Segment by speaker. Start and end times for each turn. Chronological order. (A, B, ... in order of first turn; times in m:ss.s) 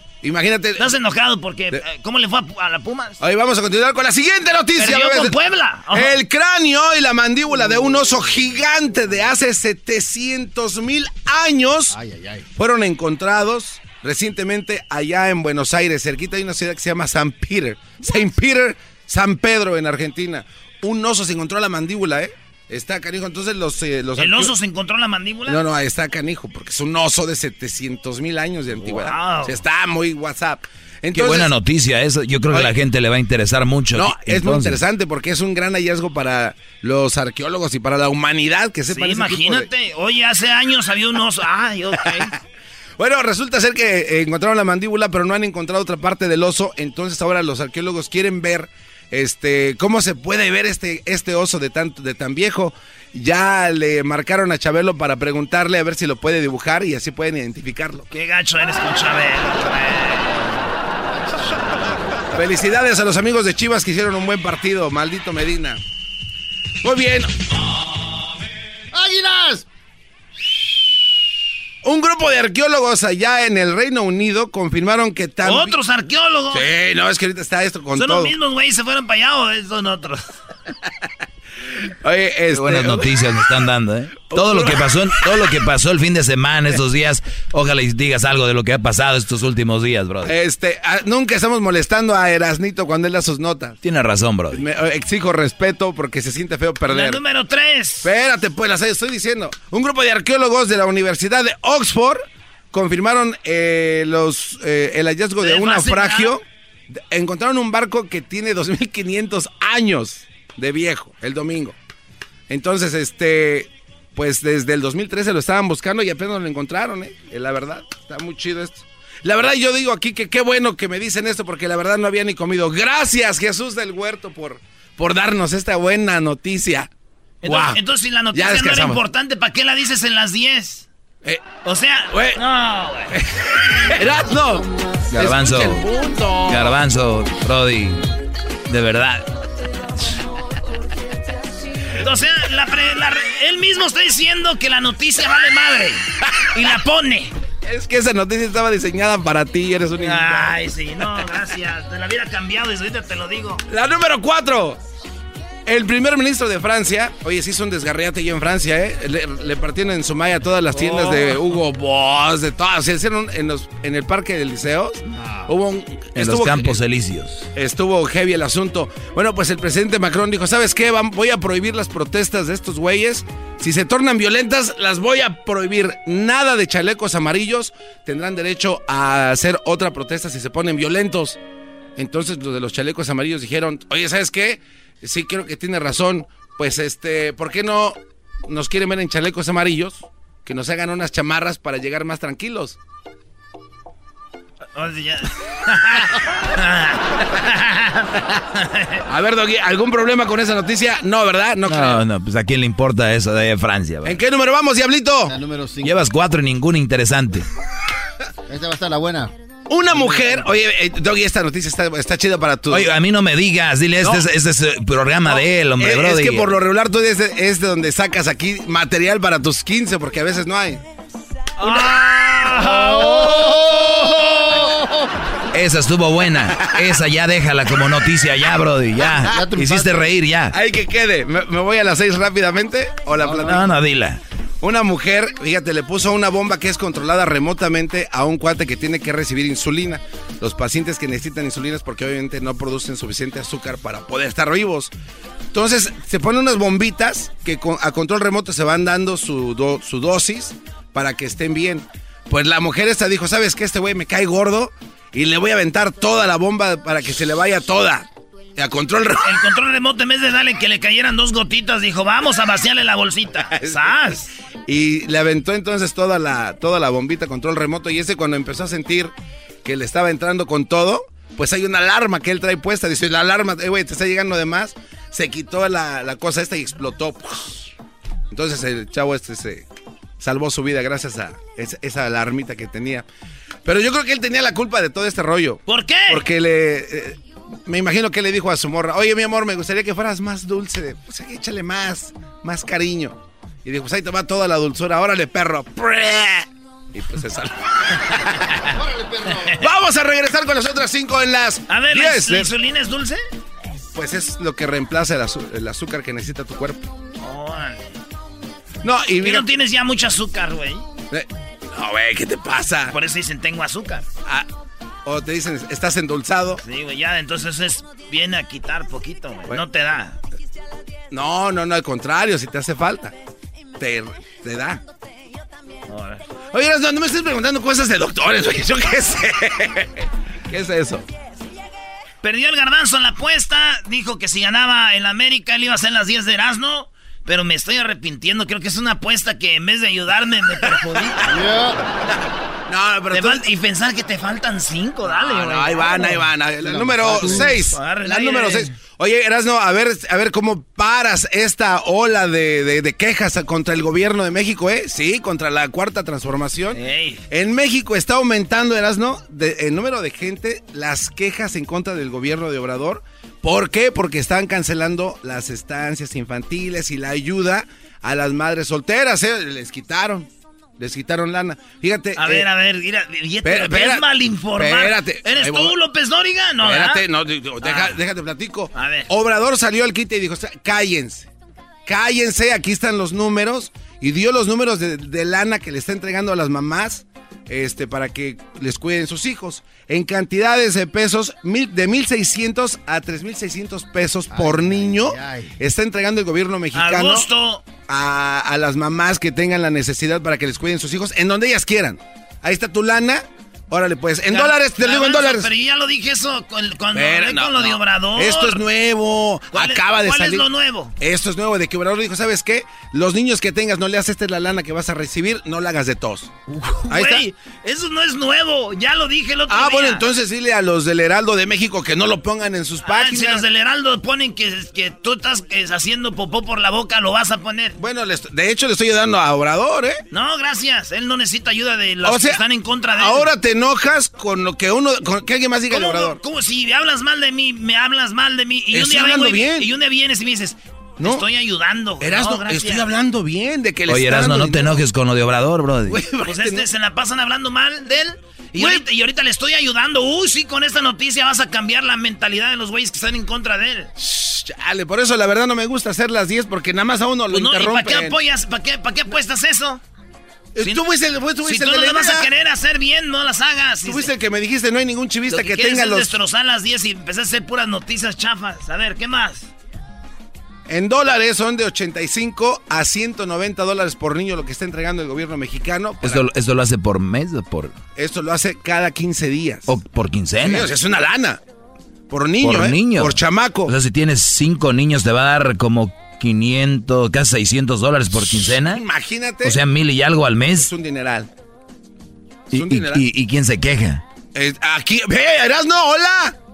0:00.2-0:00.9 A
0:00.8-0:03.2 B
0:03.2-0:05.4 A
0:04.8-0:06.2 B
0:05.9-0:12.0 A
0:11.9-0:12.5 C
0:12.6-0:24.5 A
0:24.2-0:25.6 B
0:25.5-0:31.5 A
0:28.8-0:29.6 B
0:31.1-0:34.8 D
0:32.5-0:32.8 A
0:34.0-0:39.7 A
0:38.9-0:42.3 B
0:43.0-0:58.1 A
0:58.1-1:00.6 B
1:01.3-1:01.9 C
1:02.3-1:05.8 A
1:06.8-1:07.3 A
1:08.9-1:09.7 C
1:11.8-1:15.8 A
1:15.4-1:16.7 B
1:16.5-1:18.4 A
1:18.0-1:20.4 B
1:21.9-1:23.1 A
1:22.5-1:30.4 D
1:24.3-1:25.4 A
1:30.2-1:33.8 A
1:33.8-1:34.6 D
1:34.5-1:37.2 A
1:36.9-1:38.1 B
1:38.0-1:51.8 A
1:45.4-1:46.4 B
1:52.5-2:06.9 A
2:07.4-2:07.8 A
2:07.4-2:10.9 B
2:08.3-2:09.0 A
2:11.6-2:13.2 B
2:12.1-2:12.4 A
2:13.1-2:16.8 A
2:15.1-2:15.9 D
2:16.5-2:18.1 D
2:18.7-2:19.3 D
2:22.0-2:27.3 B
2:27.6-2:30.6 A
2:30.0-2:33.6 B
2:33.7-2:34.8 A
2:35.7-2:46.8 A
2:40.7-2:41.4 B
2:45.2-2:45.5 C
2:46.2-2:47.5 D
2:47.6-3:01.4 A
3:02.0-3:12.8 A
3:14.8-3:19.0 B
3:19.1-3:22.0 A
3:21.7-3:24.2 D
3:24.0-3:25.4 A
3:25.3-3:26.1 C
3:25.8-3:27.5 D
3:28.5-3:29.3 C
3:29.7-3:32.9 A
3:29.9-3:30.5 C
3:32.7-3:36.5 D
3:34.0-3:34.3 A
3:35.8-3:40.8 A
3:41.6-3:43.5 B
3:42.4-3:45.1 C
3:45.5-3:50.6 D
3:46.5-3:46.9 A
3:49.2-3:50.0 C
3:50.5-3:53.7 A
3:53.2-3:53.6 C
3:53.4-3:54.2 D
3:54.6-4:04.9 A
4:05.5-4:19.5 A
4:19.2-4:24.3 B
4:23.4-4:24.2 A
4:24.7-4:29.1 A
4:29.6-4:37.7 A
4:38.3-4:39.7 A
4:40.2-4:43.1 A
4:43.6-4:58.4 A
4:45.7-4:46.2 B
4:58.7-4:59.6 C
4:59.6-5:02.5 A
5:01.7-5:03.2 B
5:03.9-5:06.9 A
5:07.2-5:07.9 B
5:08.8-5:09.5 A
5:09.2-5:10.9 B
5:11.1-5:13.0 A
5:12.9-5:14.1 B
5:15.0-5:16.6 A
5:16.6-5:20.2 B
5:21.1-5:23.1 A
5:23.8-5:24.8 A
5:25.9-5:26.2 B
5:26.5-5:31.1 A
5:32.2-5:41.3 B
5:41.2-5:41.8 C
5:42.7-5:43.5 A
5:43.1-5:46.0 B
5:45.1-6:12.5 A
5:45.9-5:47.6 C
5:47.2-5:48.7 B
5:56.7-5:57.2 B
6:12.2-6:17.0 B
6:13.4-6:15.8 A
6:16.6-6:21.3 A
6:17.6-6:18.0 B
6:18.7-6:19.1 B
6:21.9-6:37.3 A
6:34.3-6:35.6 C
6:36.7-6:37.6 B
6:37.9-6:45.5 A
6:44.3-6:48.6 B
6:46.9-6:50.5 A
6:49.5-6:51.0 B
6:51.0-6:56.3 A
6:56.5-7:00.1 B
6:56.9-6:57.3 A
6:59.5-7:03.4 A
7:02.8-7:07.8 B
7:07.8-7:10.0 A
7:10.1-7:13.3 B
7:12.0-7:12.4 A
7:13.0-7:16.2 A
7:15.7-7:22.9 B
7:18.7-7:19.7 A
7:22.0-7:24.8 A
7:23.9-7:26.0 D
7:25.9-7:26.7 A
7:26.2-7:33.9 B
7:28.5-7:28.8 A
7:34.0-7:38.2 A
7:37.3-7:39.8 B
7:40.5-7:42.3 A
7:41.4-7:44.1 B
7:43.8-7:46.1 A
7:45.3-7:49.5 B
7:50.7-7:56.3 A
7:56.0-7:57.8 D
7:58.0-7:59.7 A
7:59.7-8:00.7 D
8:00.4-8:01.4 A
8:02.1-8:03.7 A
8:02.4-8:08.8 D
8:08.2-8:09.6 A
8:09.4-8:10.7 D
8:10.5-8:11.3 A
8:12.5-8:13.0 A
8:12.5-8:14.0 D
8:14.3-8:16.4 A